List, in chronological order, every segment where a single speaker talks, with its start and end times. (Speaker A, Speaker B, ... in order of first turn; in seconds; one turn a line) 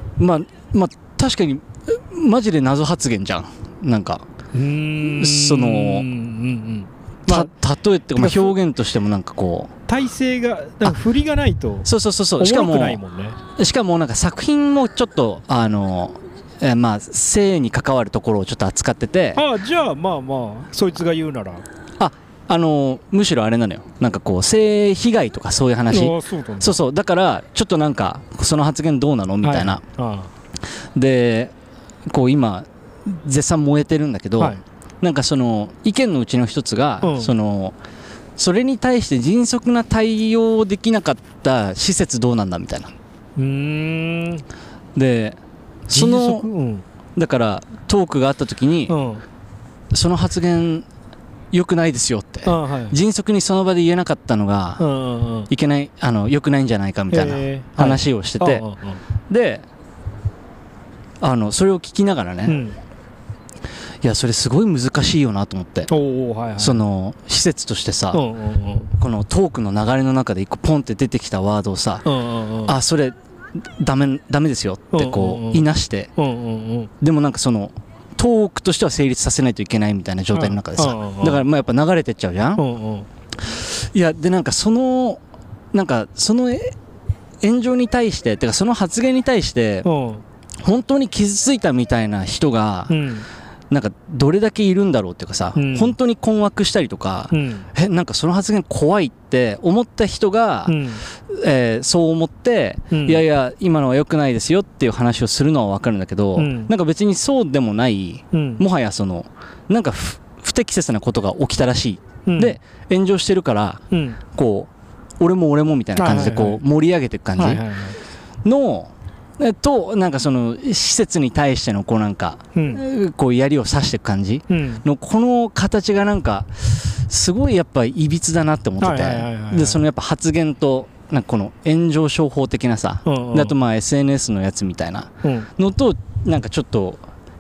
Speaker A: 0.2-4.2
Speaker B: 4.5-7.5
Speaker A: 5.0-6.1
Speaker A: 7.3-9.7
Speaker B: 8.2-8.6
Speaker B: 9.9-11.9
Speaker A: 11.8-13.0
Speaker B: 12.4-13.4
Speaker A: 13.6-19.4
Speaker B: 19.4-21.6
Speaker A: 22.0-29.8
Speaker B: 25.9-26.8
Speaker B: 29.4-30.3
Speaker A: 30.9-31.5
Speaker A: 32.1-37.8
Speaker B: 37.0-37.3
Speaker A: 38.4-42.9
Speaker B: 43.4-44.5
Speaker A: 45.0-46.5
Speaker B: 45.9-46.9
Speaker A: 47.2-49.0
Speaker B: 48.9-49.2
Speaker A: 49.9-50.9
Speaker A: 51.5-54.8
Speaker B: 52.5-53.0
Speaker B: 54.8-55.5
Speaker A: 55.5-58.6
Speaker B: 57.1-59.0
Speaker A: 59.3-59.6
Speaker A: 61.2-62.6
Speaker B: 62.5-62.8
Speaker A: 64.0-65.9
Speaker B: 65.9-66.8
Speaker A: 66.6-68.2
Speaker B: 68.1-68.9
Speaker A: 69.0-72.0
Speaker B: 72.0-72.8
Speaker A: 72.7-76.1
Speaker B: 74.9-76.9
Speaker A: 77.0-82.6
Speaker B: 80.3-81.4
Speaker B: 82.6-83.1
Speaker A: 83.5-85.2
Speaker A: 85.7-86.8
Speaker A: 87.4-89.9
Speaker B: 89.8-90.2
Speaker A: 90.6-93.0
Speaker B: 92.9-93.3
Speaker A: 93.7-117.6
Speaker B: 95.5-96.0
Speaker B: 97.3-97.7
Speaker B: 100.7-101.0
Speaker B: 102.9-103.2
Speaker B: 106.4-106.7
Speaker B: 108.3-108.6
Speaker B: 112.3-112.6
Speaker B: 113.9-114.2
Speaker B: 116.0-116.6
Speaker B: 117.4-118.0
Speaker A: 118.4-137.0
Speaker B: 122.5-122.8
Speaker B: 124.5-124.8
Speaker B: 128.8-129.8
Speaker B: 133.1-133.6
Speaker B: 135.2-135.5